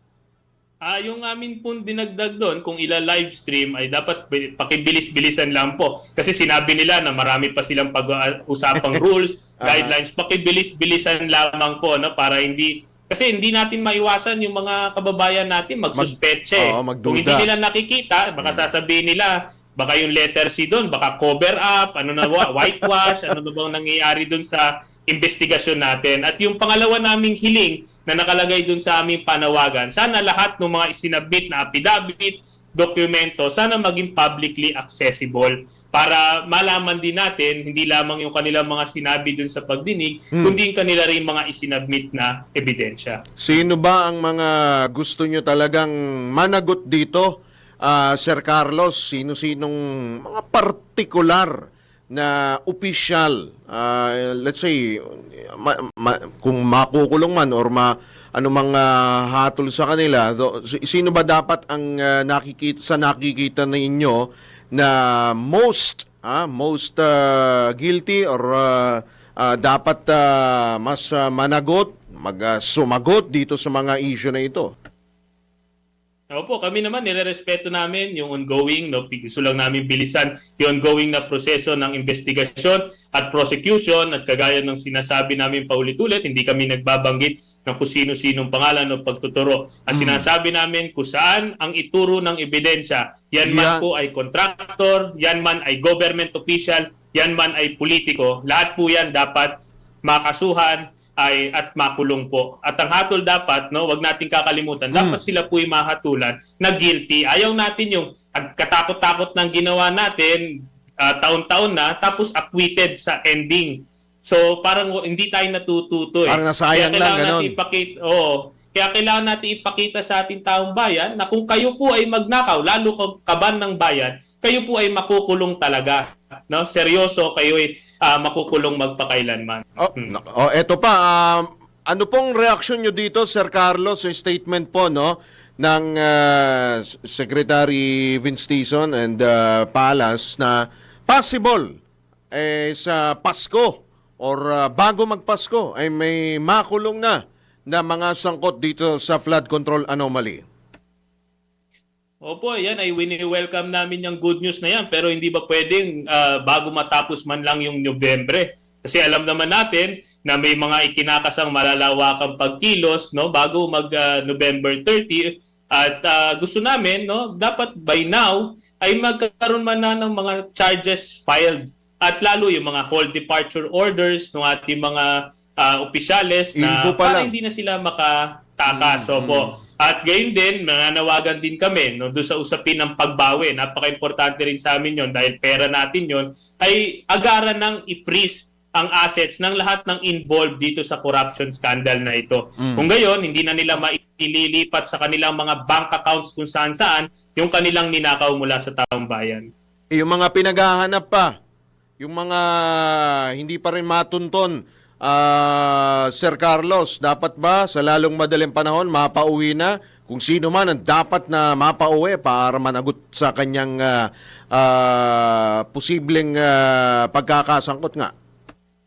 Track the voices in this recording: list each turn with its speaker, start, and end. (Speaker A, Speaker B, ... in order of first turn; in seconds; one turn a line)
Speaker A: 0.8-43.2
Speaker B: 9.6-9.9
Speaker B: 15.9-17.5
Speaker B: 22.4-23.2
Speaker B: 43.4-47.3
Speaker B: 47.9-64.2
Speaker B: 64.7-74.7
Speaker A: 76.3-99.5
Speaker B: 89.9-90.3
Speaker B: 93.4-93.8
Speaker A: 100.0-110.4
Speaker B: 104.9-105.2
Speaker A: 111.0-130.1
Speaker B: 116.3-117.5
Speaker B: 129.8-141.7
Speaker B: 142.3-150.4
Speaker A: 152.2-199.5
Speaker B: 176.6-177.3
Speaker B: 178.7-179.5
Speaker B: 192.6-192.9
Speaker B: 199.9-201.3
Speaker B: 202.0-218.1